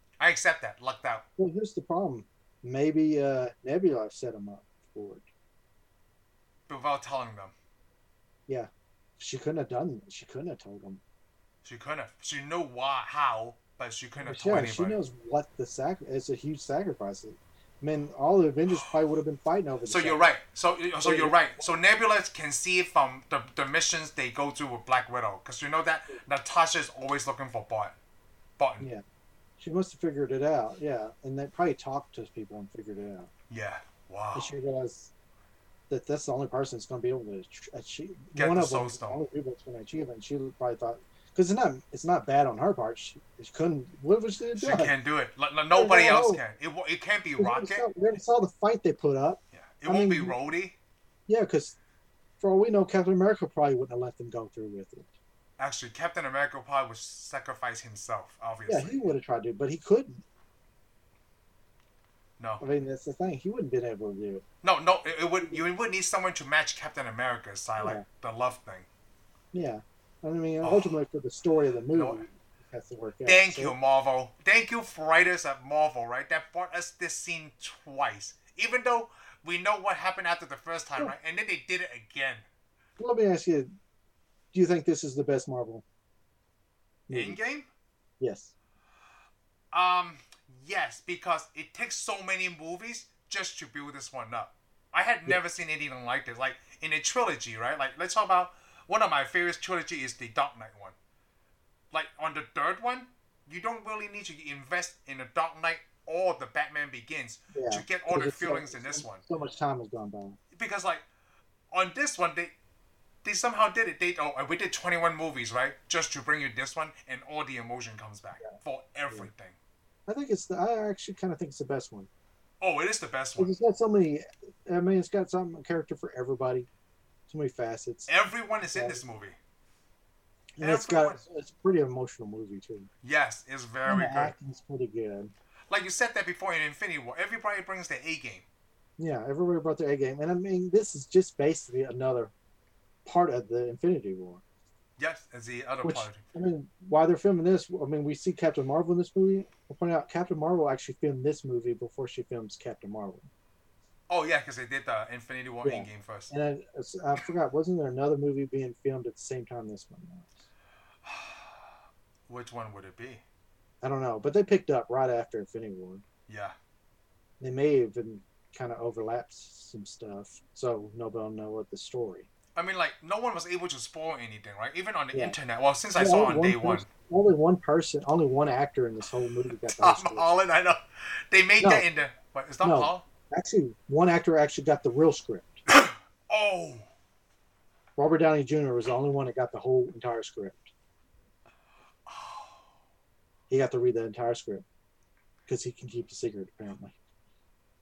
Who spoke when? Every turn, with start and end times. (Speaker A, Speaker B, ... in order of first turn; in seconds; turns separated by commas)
Speaker A: 0.2-1.2, Speaker B: 1.4-5.3, Speaker A: 6.7-7.5, Speaker B: 8.5-11.0, Speaker A: 11.6-15.0, Speaker B: 14.2-20.3, Speaker A: 19.9-28.0, Speaker B: 21.0-21.7, Speaker A: 28.6-28.9, Speaker B: 29.6-33.3, Speaker A: 33.5-34.5, Speaker B: 34.3-35.1, Speaker B: 35.9-44.9, Speaker A: 38.4-39.2, Speaker A: 44.6-47.9, Speaker B: 45.7-46.4, Speaker B: 47.4-50.4, Speaker A: 49.5-50.8, Speaker B: 51.3-51.8, Speaker B: 52.4-55.1, Speaker A: 55.6-59.1, Speaker B: 58.7-60.2, Speaker B: 62.6-64.5, Speaker A: 64.6-68.9, Speaker B: 67.8-68.0, Speaker B: 69.5-73.8, Speaker A: 70.6-71.0, Speaker A: 71.9-72.2, Speaker A: 73.3-82.5, Speaker B: 83.0-83.7, Speaker B: 84.5-85.8, Speaker B: 87.1-87.4, Speaker A: 87.1-87.7, Speaker B: 88.2-88.5, Speaker A: 89.7-101.0, Speaker A: 101.9-109.2, Speaker B: 107.5-110.4, Speaker A: 110.5-111.0, Speaker A: 111.7-112.5, Speaker A: 113.2-119.6, Speaker B: 120.1-122.1, Speaker A: 122.6-123.5, Speaker B: 123.4-126.7, Speaker B: 127.3-128.1, Speaker A: 128.1-129.4, Speaker B: 128.6-129.0, Speaker B: 130.6-132.9, Speaker A: 130.6-131.2, Speaker A: 133.0-134.3, Speaker B: 133.8-135.3, Speaker A: 135.7-138.4, Speaker B: 139.0-142.3, Speaker B: 143.1-144.4, Speaker A: 145.0-146.3, Speaker B: 145.8-153.3, Speaker A: 154.1-156.3, Speaker B: 155.6-160.4, Speaker A: 161.0-161.8, Speaker A: 162.3-163.2, Speaker B: 163.8-166.0, Speaker A: 166.3-166.6, Speaker B: 167.4-172.3, Speaker A: 172.6-176.9, Speaker B: 175.1-175.4, Speaker B: 175.9-180.3, Speaker A: 179.7-183.1, Speaker B: 182.6-185.6, Speaker A: 185.7-186.9, Speaker B: 188.0-190.7, Speaker A: 192.1-192.6, Speaker B: 193.5-194.7, Speaker B: 195.5-196.9